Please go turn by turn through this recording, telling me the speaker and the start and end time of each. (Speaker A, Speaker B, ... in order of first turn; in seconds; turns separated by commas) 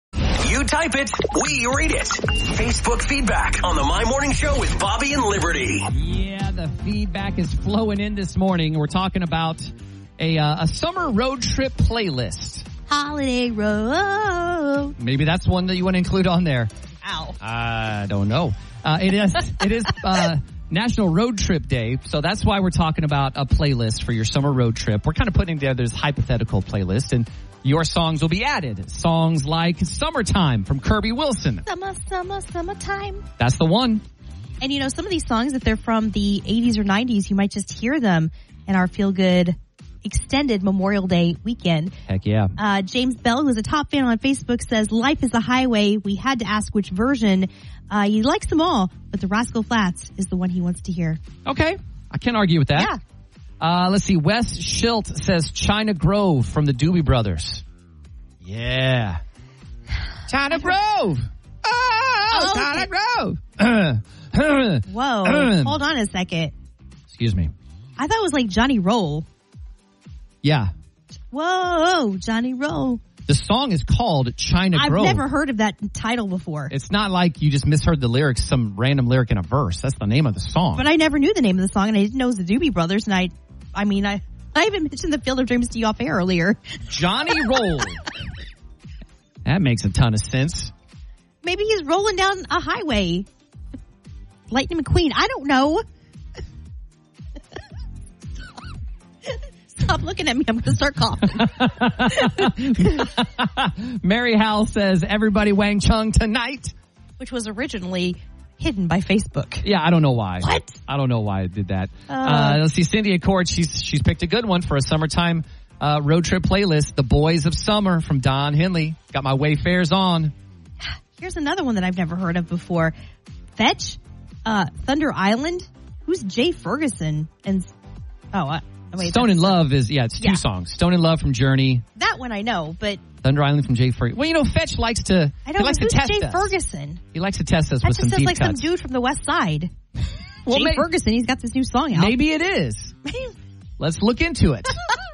Speaker A: 0.2-5.9, Speaker B: 5.9-12.7, Speaker C: 12.9-14.9, Speaker B: 15.0-16.7, Speaker C: 17.0-17.4, Speaker B: 17.4-31.6, Speaker C: 31.6-33.2, Speaker B: 33.4-34.0, Speaker C: 34.6-41.9, Speaker B: 42.1-42.5, Speaker C: 42.6-51.2, Speaker B: 51.5-52.9, Speaker B: 53.6-57.6, Speaker B: 58.4-59.2, Speaker B: 60.3-65.8, Speaker C: 62.3-62.9, Speaker C: 64.9-66.5, Speaker B: 67.1-67.5, Speaker C: 68.0-69.3, Speaker B: 70.4-70.7, Speaker C: 71.3-73.0, Speaker B: 73.3-75.2, Speaker C: 74.7-76.7, Speaker B: 76.7-80.8, Speaker C: 80.8-87.6, Speaker B: 86.9-88.0, Speaker B: 89.5-90.7, Speaker C: 91.4-93.3, Speaker C: 94.5-95.8, Speaker C: 99.3-102.5, Speaker B: 101.3-106.7, Speaker C: 107.2-109.7, Speaker B: 109.6-120.3, Speaker C: 110.4-110.8, Speaker C: 112.1-112.6, Speaker C: 120.8-122.9, Speaker C: 123.6-127.7, Speaker C: 128.3-129.7, Speaker B: 129.0-131.8, Speaker C: 130.2-130.4, Speaker C: 131.9-133.0, Speaker B: 133.2-136.5, Speaker C: 135.4-137.0, Speaker B: 137.1-138.7, Speaker C: 137.8-139.7, Speaker C: 140.5-142.2, Speaker B: 140.5-140.9, Speaker B: 141.9-142.9, Speaker C: 143.1-143.3, Speaker B: 143.8-144.8